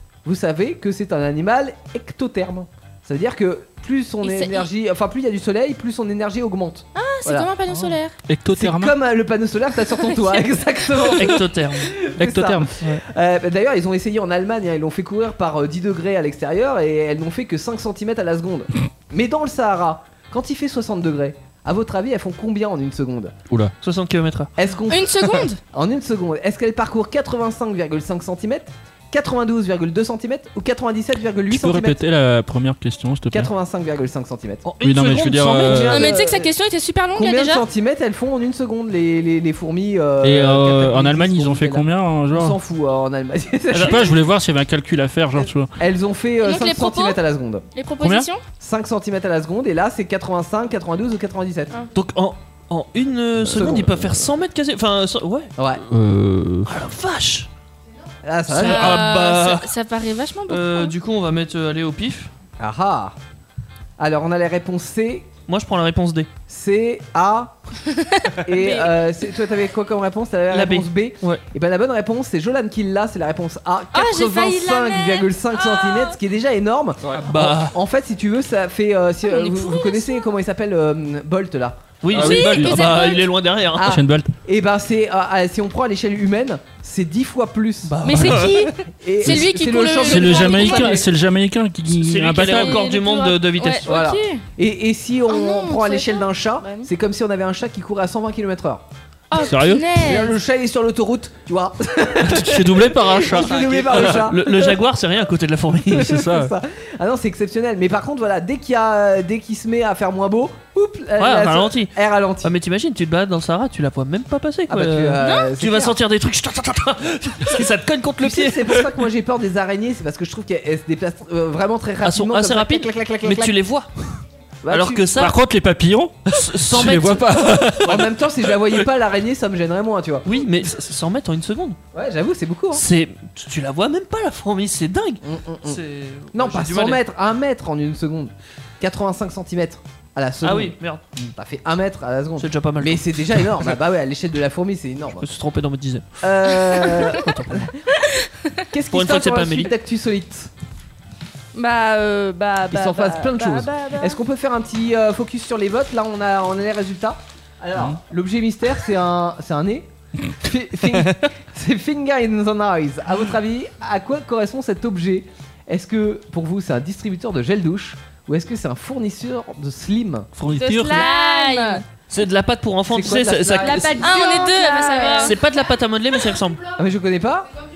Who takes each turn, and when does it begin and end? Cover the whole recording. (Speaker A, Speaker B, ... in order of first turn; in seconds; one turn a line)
Speaker A: 0.2-7.5
Speaker B: 4.2-4.7
Speaker B: 6.9-8.1
Speaker C: 8.3-8.9
Speaker A: 8.6-23.3
Speaker B: 10.1-10.4
Speaker D: 11.1-11.9
Speaker C: 12.2-12.7
Speaker D: 23.8-24.5
Speaker A: 24.6-32.0
Speaker B: 24.9-25.6
Speaker C: 31.5-33.5
Speaker A: 33.3-34.7
Speaker D: 34.6-36.0
Speaker C: 34.8-36.1
Speaker A: 35.5-36.5
Speaker B: 35.9-37.6
Speaker A: 37.1-44.1
Speaker C: 40.2-42.5
Speaker D: 43.7-44.0
Speaker C: 43.7-45.7
Speaker A: 45.8-47.6
Speaker B: 46.4-47.2
Speaker B: 47.7-48.4
Speaker C: 48.0-48.3
Speaker A: 48.6-51.7
Speaker D: 51.9-55.5
Speaker C: 53.5-53.9
Speaker A: 53.5-54.1
Speaker A: 55.6-55.8
Speaker C: 55.9-56.7
Speaker D: 56.7-57.5
Speaker A: 58.2-59.0
Speaker D: 58.5-59.7
Speaker B: 58.5-60.9
Speaker D: 60.5-62.3
Speaker A: 62.6-63.1
Speaker A: 64.0-65.3
Speaker D: 65.5-66.3
Speaker A: 66.5-67.5
Speaker B: 68.0-68.9
Speaker A: 68.4-82.5
Speaker D: 70.5-71.4
Speaker B: 73.9-76.2
Speaker D: 77.2-77.7
Speaker B: 79.2-80.2
Speaker D: 82.0-84.0
Speaker C: 82.1-83.1
Speaker B: 82.1-83.2
Speaker A: 83.8-91.1
Speaker C: 83.8-84.3
Speaker D: 87.9-88.6
Speaker B: 88.1-91.0
Speaker C: 90.0-92.8
Speaker D: 91.9-93.9
Speaker B: 92.4-94.4
Speaker A: 93.8-98.8
Speaker B: 95.3-96.7
Speaker B: 99.3-100.3
Speaker C: 99.4-99.9
Speaker A: 100.0-104.8
Speaker C: 102.3-104.2
Speaker D: 103.3-106.1
Speaker A: 105.9-112.5
Speaker C: 105.9-106.5
Speaker D: 111.2-118.9
Speaker A: 114.7-116.0
Speaker B: 115.2-115.5
Speaker A: 118.2-123.5
Speaker D: 122.0-123.9
Speaker A: 124.6-125.1
Speaker D: 124.7-125.3
Speaker C: 125.2-128.0
Speaker D: 126.3-128.1
Speaker A: 127.8-130.3
Speaker D: 130.2-131.8
Speaker A: 131.9-132.8
Speaker D: 132.7-137.0
Speaker A: 135.2-135.8
Speaker A: 136.3-140.8
Speaker D: 140.4-141.0
Speaker A: 141.3-145.2
Speaker D: 142.4-143.7
Speaker D: 145.2-146.0
Speaker A: 146.2-147.7
Speaker D: 147.0-147.7
Speaker A: 148.7-150.5
Speaker D: 148.9-149.7
Speaker E: 151.5-154.2
Speaker A: 152.7-170.3
Speaker C: 170.3-171.0
Speaker E: 170.6-171.8
Speaker B: 170.8-171.8
Speaker D: 172.1-174.0
Speaker A: 172.9-174.0
Speaker E: 173.6-175.3
Speaker B: 174.0-175.3
Speaker D: 175.1-176.6
Speaker A: 176.8-177.5